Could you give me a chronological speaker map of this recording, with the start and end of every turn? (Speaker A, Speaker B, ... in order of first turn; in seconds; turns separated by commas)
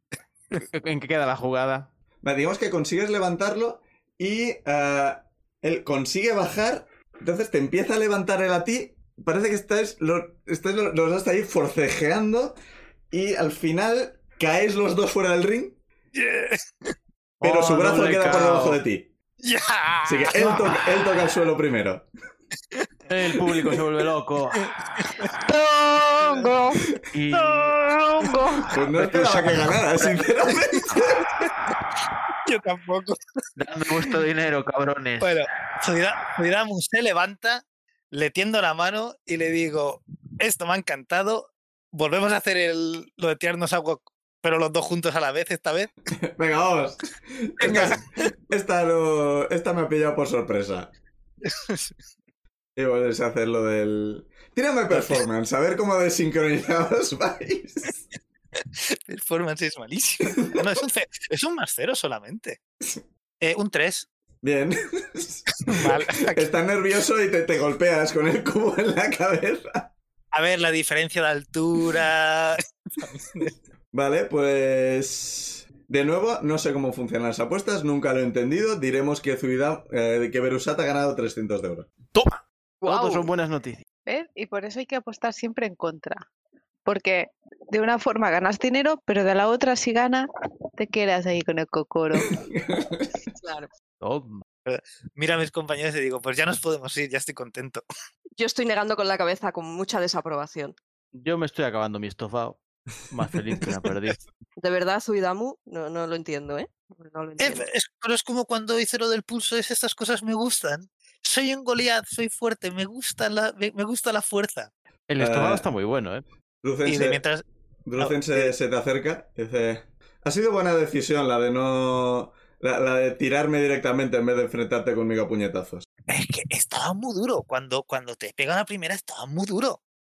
Speaker A: 0.5-1.9, Speaker B: 2.2-12.6, Speaker B: 13.1-15.8, Speaker C: 16.1-16.9, Speaker A: 17.4-18.8, Speaker B: 17.4-19.1, Speaker C: 19.4-21.0, Speaker B: 20.0-22.1, Speaker A: 20.4-20.6, Speaker A: 23.1-24.6, Speaker C: 23.4-23.8, Speaker C: 24.5-25.4, Speaker C: 26.1-26.6, Speaker D: 26.3-26.8, Speaker A: 27.1-27.8, Speaker C: 27.3-28.5, Speaker B: 28.7-31.3, Speaker A: 28.9-30.2, Speaker C: 32.4-33.2, Speaker A: 33.6-35.5, Speaker C: 35.2-45.9, Speaker B: 46.2-50.9, Speaker C: 47.6-48.3, Speaker C: 51.4-51.9, Speaker B: 52.8-58.0, Speaker C: 54.9-55.2, Speaker C: 58.6-62.6, Speaker C: 63.4-64.1, Speaker B: 64.4-69.9, Speaker C: 65.6-66.5, Speaker C: 70.3-73.5, Speaker B: 73.9-81.9, Speaker A: 82.1-83.8, Speaker E: 82.8-83.3, Speaker D: 84.0-86.3, Speaker D: 86.9-92.4, Speaker B: 92.3-93.1, Speaker E: 93.4-93.7, Speaker A: 94.0-94.4, Speaker C: 94.7-97.8, Speaker E: 98.4-100.7, Speaker A: 101.1-102.6, Speaker A: 103.1-104.2, Speaker E: 104.6-107.7, Speaker C: 107.4-114.7, Speaker A: 115.1-116.2, Speaker B: 115.2-115.7, Speaker B: 116.6-117.2, Speaker C: 116.8-117.4, Speaker B: 117.8-125.8, Speaker C: 118.0-118.5, Speaker C: 126.1-129.8